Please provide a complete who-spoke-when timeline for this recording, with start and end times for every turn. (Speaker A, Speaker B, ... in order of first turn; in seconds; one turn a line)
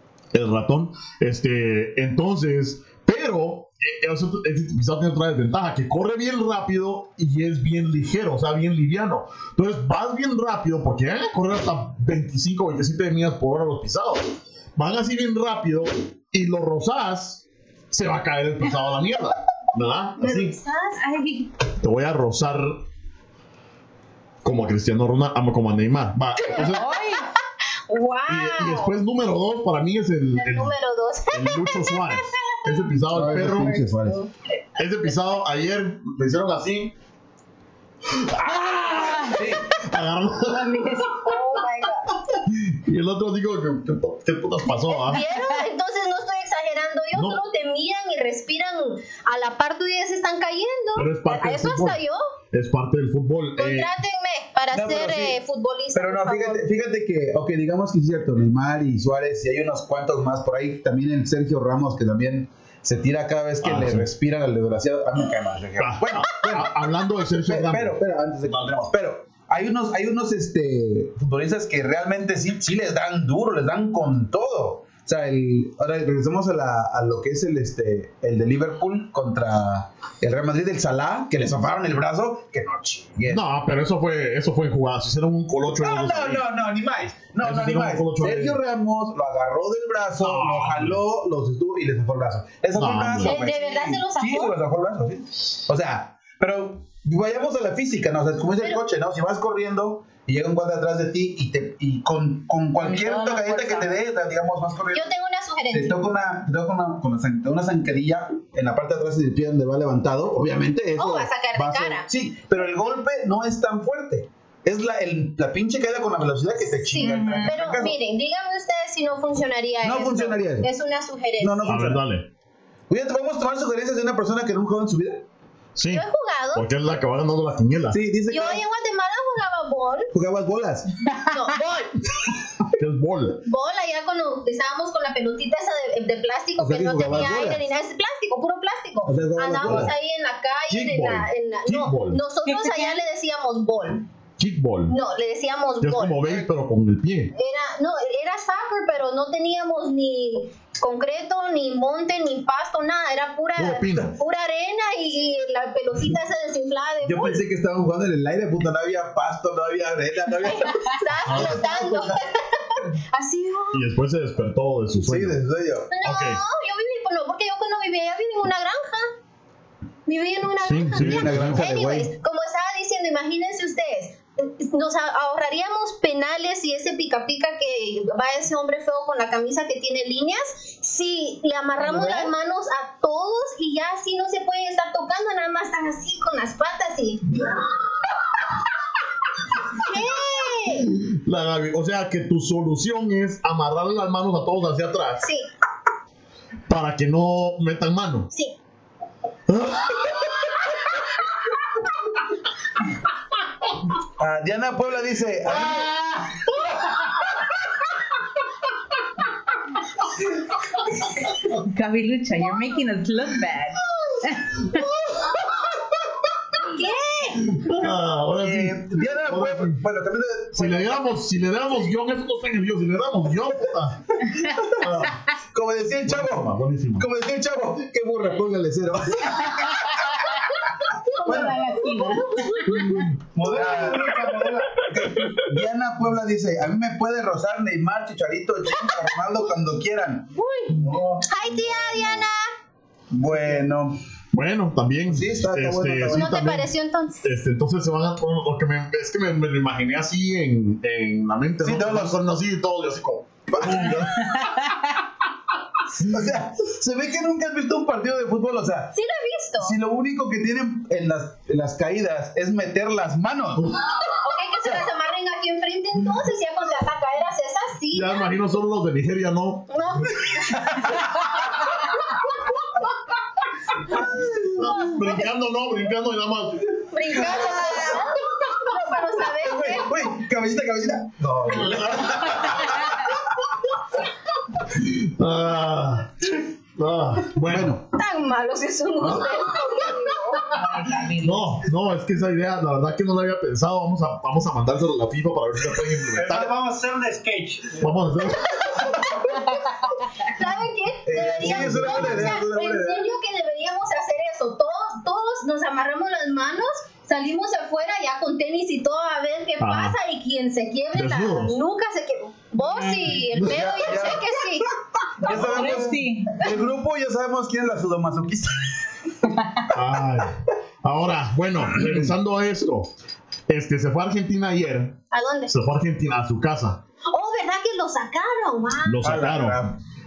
Speaker A: 0.3-20.6
Speaker B: 20.2-21.0
Speaker C: 20.9-21.5
Speaker A: 21.8-22.8
Speaker A: 24.4-26.9
Speaker B: 26.5-27.0
Speaker C: 26.5-27.3
Speaker B: 27.9-28.9
Speaker A: 28.3-30.8
Speaker B: 30.4-32.5
Speaker A: 31.3-33.9
Speaker D: 33.1-34.2
Speaker B: 33.6-34.3
Speaker A: 34.8-36.9
Speaker A: 38.1-41.4
Speaker D: 39.3-39.7
Speaker B: 40.5-42.1
Speaker A: 42.3-45.2
Speaker B: 44.9-52.2
Speaker A: 47.1-47.4
Speaker A: 51.0-53.9
Speaker B: 53.6-56.6
Speaker D: 54.7-55.4
Speaker D: 56.0-66.7
Speaker A: 63.6-64.1
Speaker A: 65.8-68.7
Speaker D: 67.5-83.4
Speaker A: 83.3-86.5
Speaker D: 85.7-105.1
Speaker A: 87.4-88.6
Speaker A: 90.2-91.0
Speaker A: 92.8-93.4
Speaker B: 93.2-94.5
Speaker C: 102.8-104.0
Speaker B: 104.9-106.0
Speaker D: 105.7-118.0
Speaker B: 111.0-112.1
Speaker B: 116.9-121.7
Speaker C: 117.0-117.6
Speaker D: 119.8-120.7
Speaker D: 121.4-122.0
Speaker A: 121.7-122.3
Speaker D: 122.9-125.2
Speaker A: 125.8-128.0
Speaker B: 125.9-126.7
Speaker D: 127.9-128.6
Speaker B: 128.3-130.1
Speaker D: 130.1-130.9
Speaker B: 131.3-131.9
Speaker A: 132.7-133.4
Speaker B: 133.5-144.1
Speaker D: 136.6-137.6
Speaker A: 137.0-137.4
Speaker D: 139.1-139.9
Speaker A: 139.6-139.9
Speaker A: 140.7-142.2
Speaker C: 142.5-143.0
Speaker A: 144.4-145.0
Speaker B: 144.9-146.2
Speaker A: 145.8-147.3
Speaker B: 147.3-157.4
Speaker A: 153.6-154.2
Speaker D: 157.0-162.2
Speaker B: 160.5-163.8
Speaker A: 161.3-161.7
Speaker A: 163.7-165.4
Speaker D: 165.1-165.9
Speaker B: 165.9-169.1
Speaker A: 166.0-166.4
Speaker B: 170.1-187.4
Speaker A: 170.6-171.6
Speaker D: 171.0-172.1
Speaker B: 189.8-190.9
Speaker A: 190.7-195.2
Speaker B: 195.2-195.5
Speaker A: 196.7-198.3
Speaker A: 199.5-200.7
Speaker D: 204.2-205.9
Speaker A: 205.5-207.0
Speaker C: 211.5-214.8
Speaker A: 214.8-215.4
Speaker B: 216.6-217.5
Speaker A: 217.4-219.8
Speaker D: 218.4-220.9
Speaker A: 220.6-224.2
Speaker D: 224.4-230.0
Speaker A: 224.7-225.2
Speaker A: 226.1-227.1
Speaker B: 231.0-232.6
Speaker C: 231.2-232.6
Speaker D: 231.3-231.5
Speaker A: 232.7-233.2
Speaker E: 233.3-234.8
Speaker D: 233.4-240.3
Speaker B: 240.3-240.8
Speaker E: 240.7-241.3
Speaker B: 241.3-242.5
Speaker D: 243.1-244.0
Speaker A: 244.3-246.7
Speaker D: 245.1-246.3
Speaker B: 246.1-247.3
Speaker A: 247.2-254.2
Speaker D: 251.6-252.2
Speaker D: 253.5-254.5
Speaker C: 254.4-254.8
Speaker D: 256.0-259.0
Speaker B: 258.9-259.8
Speaker D: 259.6-263.7
Speaker A: 263.6-263.9
Speaker B: 264.2-268.3
Speaker A: 267.9-269.7
Speaker B: 269.7-271.0
Speaker A: 273.9-277.3
Speaker B: 273.9-275.3
Speaker B: 276.9-279.9
Speaker D: 277.1-278.6
Speaker D: 279.1-283.1
Speaker A: 281.5-283.1
Speaker A: 284.7-287.8
Speaker D: 287.4-287.8
Speaker B: 287.9-290.5
Speaker C: 290.5-291.6
Speaker A: 291.2-296.5
Speaker E: 296.1-297.9
Speaker A: 297.8-299.0
Speaker B: 298.8-299.4
Speaker B: 300.2-314.7
Speaker D: 301.1-303.1
Speaker A: 309.6-310.0
Speaker A: 310.9-311.6
Speaker C: 312.6-313.2
Speaker D: 313.3-314.4
Speaker D: 315.2-318.8
Speaker C: 315.2-316.5
Speaker A: 319.7-322.9
Speaker A: 323.5-325.0
Speaker B: 325.1-325.6
Speaker A: 325.5-326.8
Speaker B: 327.1-329.1
Speaker A: 328.8-329.7
Speaker D: 329.0-329.8